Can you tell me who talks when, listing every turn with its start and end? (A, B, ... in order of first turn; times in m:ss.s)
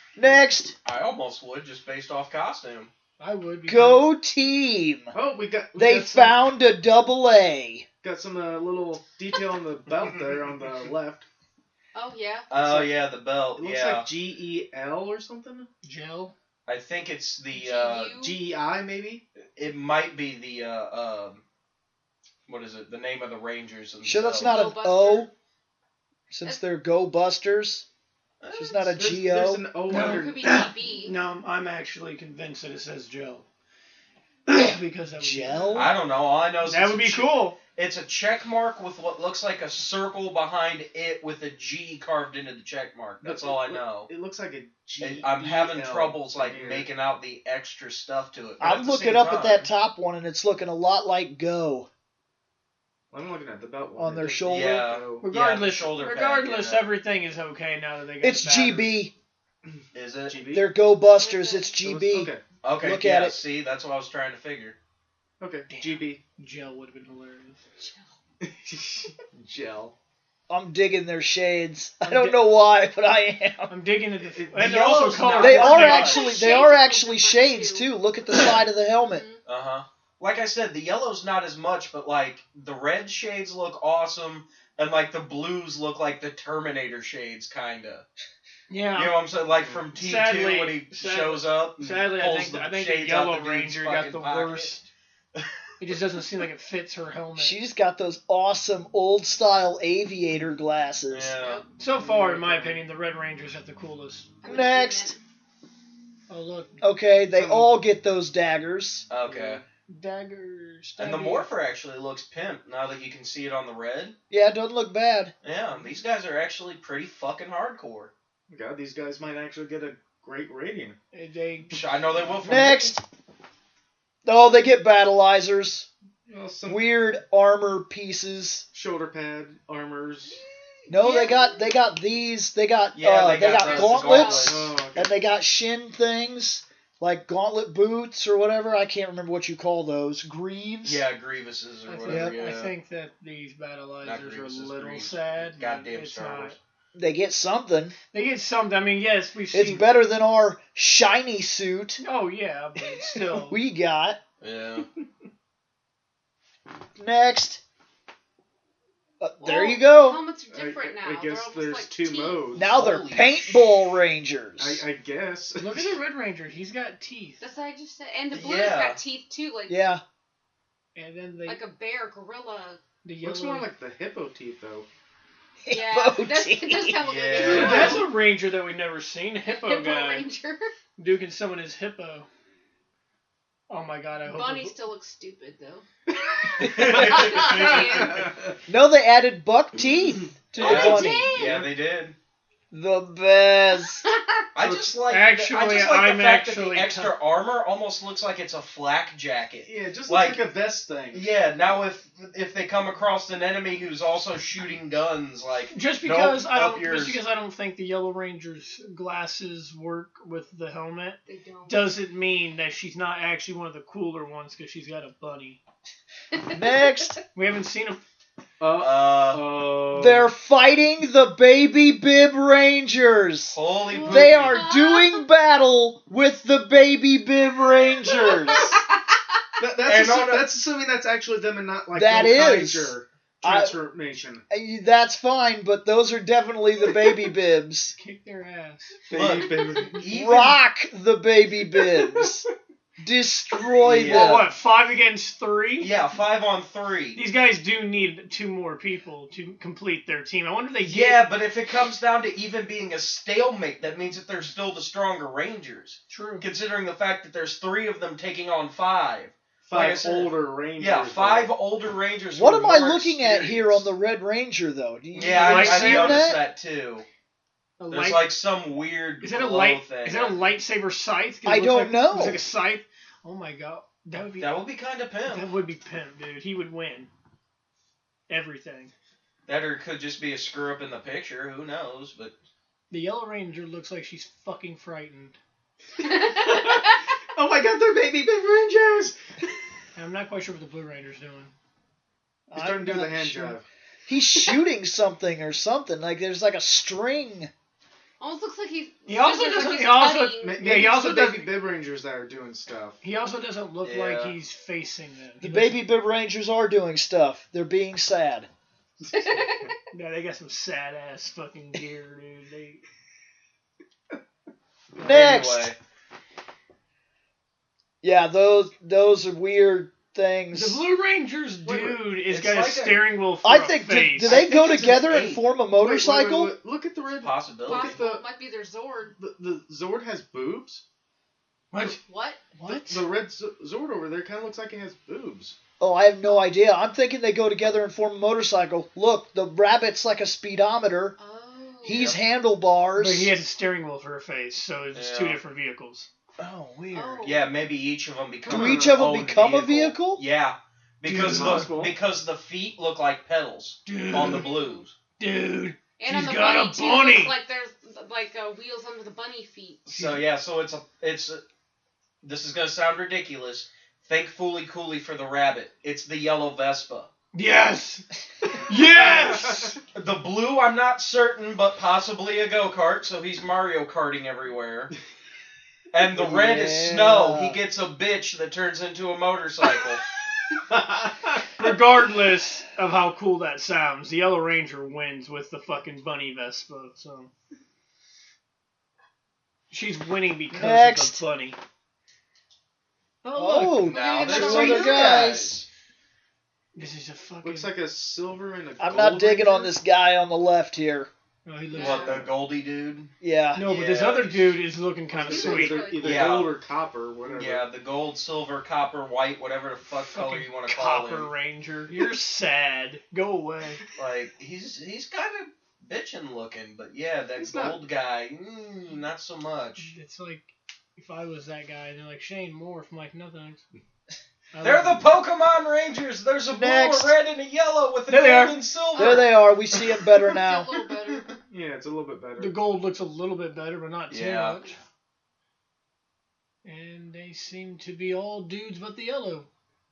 0:00.2-0:00.8 A
0:00.8-0:02.9 B
0:03.2-0:04.1 C
0:03.7-0:05.1 A
0:05.1-0:06.4 D
0:05.8-0:07.8 A
0:08.0-0:11.3 D
0:11.9-0:12.5 E
0:12.5-0:14.1 B
0:12.6-0:12.9 D
0:13.6-0:15.7 D
0:15.8-0:16.3 C
0:16.6-0:18.2 B
0:17.5-0:18.4 E
0:18.2-0:19.2 D
0:19.6-0:21.4 B
0:22.5-0:24.7 B
0:24.0-0:25.3 A
0:24.4-0:25.3 E
0:26.3-0:27.8 A
0:28.4-0:28.9 B
0:28.5-0:29.6 A
0:28.9-0:30.4 D
0:29.9-0:33.4 C
0:29.9-0:31.1 E
0:34.5-0:35.9 C
0:35.2-0:35.9 A
0:35.8-0:44.1 B
0:36.6-0:37.6 C
0:43.2-0:46.9 D
0:45.0-0:49.7 B
0:48.6-0:51.9 A
0:53.1-0:55.2 D
0:54.0-0:54.8 A
0:54.5-0:56.9 B
0:55.2-0:58.9 C
0:58.2-0:59.1 A
0:59.6-1:00.7 D
0:59.9-1:00.4 B
1:00.5-1:03.4 A
1:01.0-1:01.8 E
1:01.8-1:02.4 D
1:02.6-1:04.8 B
1:05.4-1:06.2 D
1:05.7-1:07.6 C
1:07.8-1:08.1 E
1:08.4-1:09.9 D
1:10.5-1:13.7 A
1:12.0-1:12.4 C
1:13.7-1:16.2 C
1:14.3-1:14.8 D
1:14.6-1:16.2 B
1:15.4-1:19.2 A
1:15.9-1:17.9 E
1:19.0-1:19.4 E
1:19.4-1:28.1 B
1:28.7-1:29.2 C
1:28.9-1:34.8 B
1:29.5-1:29.9 D
1:30.0-1:34.9 C
1:35.8-1:37.6 C
1:37.4-1:41.4 A
1:41.1-1:41.6 B
1:41.4-1:41.7 E
1:41.8-1:44.3 C
1:42.0-1:42.8 D
1:44.4-1:45.2 E
1:44.4-1:45.2 A
1:46.3-1:46.8 C
1:46.8-1:49.1 A
1:47.3-1:47.7 D
1:49.1-1:49.6 B
1:49.2-1:49.6 D
1:49.9-1:51.5 C
1:51.0-1:54.1 B
1:54.3-1:55.3 A
1:55.4-1:58.1 B
1:58.5-2:01.0 D
2:01.1-2:01.8 C
2:01.7-2:02.9 B
2:02.4-2:03.0 A
2:04.2-2:05.9 A
2:06.2-2:06.9 D
2:06.6-2:08.6 A
2:08.7-2:10.4 D
2:10.9-2:21.0 A
2:11.0-2:11.3 B
2:11.0-2:11.7 E
2:12.9-2:14.8 B
2:13.6-2:14.5 E
2:14.4-2:15.1 D
2:20.8-2:22.7 B
2:21.8-2:26.5 C
2:22.1-2:22.3 A
2:24.0-2:26.6 B
2:26.9-2:28.0 A
2:28.1-2:29.9 C
2:29.5-2:32.0 A
2:32.0-2:33.6 C
2:33.2-2:34.2 A
2:34.4-2:34.9 B
2:37.0-2:37.6 A
2:39.2-2:40.2 A
2:39.4-2:42.6 E
2:40.5-2:42.7 D
2:42.6-2:44.8 A
2:42.6-2:43.7 B
2:44.6-2:46.0 D
2:45.6-2:47.4 C
2:47.4-2:49.8 E
2:48.3-2:49.0 B
2:49.7-2:50.0 A
2:50.9-2:51.6 C
2:51.4-2:52.8 E
2:53.0-2:53.7 C
2:53.2-2:54.9 D
2:55.6-2:57.0 A
2:55.7-2:58.1 E
2:57.0-2:58.1 B
2:57.3-2:58.0 D
2:57.4-3:00.3 C
2:59.4-3:00.6 E
3:01.0-3:02.3 C
3:03.7-3:04.8 C
3:04.2-3:08.3 E
3:06.6-3:08.5 D
3:06.7-3:08.2 B
3:08.7-3:11.4 A
3:10.6-3:12.2 B
3:10.6-3:11.5 E
3:10.6-3:11.7 D
3:12.7-3:14.0 A
3:14.0-3:14.4 E
3:14.6-3:20.4 B
3:14.6-3:14.9 D
3:15.1-3:17.1 C
3:19.6-3:21.3 D
3:21.1-3:27.2 B
3:25.7-3:35.6 C
3:31.2-3:31.8 E
3:36.3-3:37.0 E
3:36.5-3:37.2 A
3:37.3-3:38.0 C
3:38.6-3:40.3 D
3:38.8-3:39.4 B
3:39.9-3:48.8 A
3:43.5-3:44.6 B
3:43.9-3:45.2 E
3:48.0-3:49.4 E
3:49.6-3:54.4 D
3:49.8-3:50.5 B
3:51.9-3:53.8 A
3:54.5-3:57.9 A
3:58.0-3:59.0 C
3:59.1-4:00.0 D
3:59.1-4:00.6 B
4:00.0-4:02.4 A
4:01.9-4:02.2 D
4:03.0-4:04.5 A
4:03.8-4:04.5 B
4:04.1-4:05.9 C
4:05.8-4:07.2 B
4:07.1-4:11.2 C
4:10.8-4:23.9 B
4:16.1-4:16.5 C
4:19.7-4:21.5 D
4:22.3-4:26.4 A
4:25.1-4:27.1 B
4:25.3-4:26.2 C
4:27.8-4:28.3 C
4:27.9-4:30.4 B
4:29.2-4:34.5 C
4:31.4-4:32.4 A
4:34.4-4:35.5 B
4:35.3-4:37.1 C
4:38.3-4:38.9 C
4:39.5-4:42.3 B
4:42.9-4:45.4 C
4:46.0-4:46.9 E
4:46.0-4:49.2 D
4:49.9-4:51.5 C
4:52.5-4:57.5 A
4:52.6-4:53.6 D
4:58.2-5:00.7 E
4:59.1-5:01.5 C
5:00.4-5:03.0 D
5:03.0-5:05.8 C
5:03.8-5:04.3 B
5:05.4-5:08.5 A
5:09.1-5:09.7 E
5:09.9-5:12.8 C
5:15.0-5:15.7 A
5:15.0-5:15.8 B
5:18.0-5:20.8 A
5:20.5-5:24.4 C
5:21.7-5:22.0 D
5:22.2-5:23.0 B
5:23.4-5:26.5 A
5:24.2-5:25.4 B
5:25.7-5:28.2 D
5:27.2-5:28.0 B
5:27.7-5:29.1 E
5:29.2-5:30.8 D
5:31.7-5:32.0 C
5:31.8-5:32.4 E
5:32.6-5:33.0 A
5:32.8-5:35.6 D
5:35.8-5:41.2 A
5:41.2-5:42.1 E
5:41.8-5:43.3 A
5:41.9-5:42.2 B
5:43.0-5:46.1 C
5:44.9-5:45.4 B
5:46.4-5:47.4 A
5:46.9-5:47.5 E
5:47.2-5:54.9 B
5:48.5-5:49.0 D
5:48.5-5:50.2 A
5:51.0-5:51.7 C
5:51.2-5:51.9 D
5:53.8-5:54.5 C
5:54.2-5:54.8 E
5:55.2-5:57.3 C
5:56.0-5:59.9 E
5:59.9-6:01.4 B
6:02.2-6:07.1 B
6:07.3-6:08.0 C
6:08.6-6:09.8 C
6:08.7-6:09.8 D
6:09.9-6:14.9 B
6:15.9-6:20.0 B
6:16.1-6:17.6 A
6:20.7-6:21.5 D
6:21.6-6:27.3 C
6:29.7-6:31.6 C
6:30.5-6:31.2 A
6:33.2-6:33.9 C
6:33.3-6:35.6 A
6:33.8-6:35.6 B
6:33.9-6:35.4 E
6:36.7-6:37.7 C
6:37.4-6:39.7 D
6:38.8-6:41.1 A
6:41.4-6:42.3 C
6:41.7-6:42.3 E
6:41.8-6:44.6 B
6:43.2-6:43.7 A
6:43.6-6:45.9 C
6:45.1-6:47.6 D
6:45.2-6:46.4 E
6:45.9-6:46.5 B
6:47.2-6:51.3 B
6:50.0-6:53.8 C
6:54.0-6:59.9 B
6:57.4-6:57.8 D
6:59.8-7:03.6 C
7:04.5-7:05.1 C
7:04.6-7:09.8 B
7:06.5-7:07.2 A
7:08.1-7:08.6 C
7:09.0-7:10.7 A
7:10.3-7:11.4 E
7:11.5-7:12.6 D
7:12.4-7:14.8 C
7:14.1-7:14.6 B
7:16.6-7:19.5 C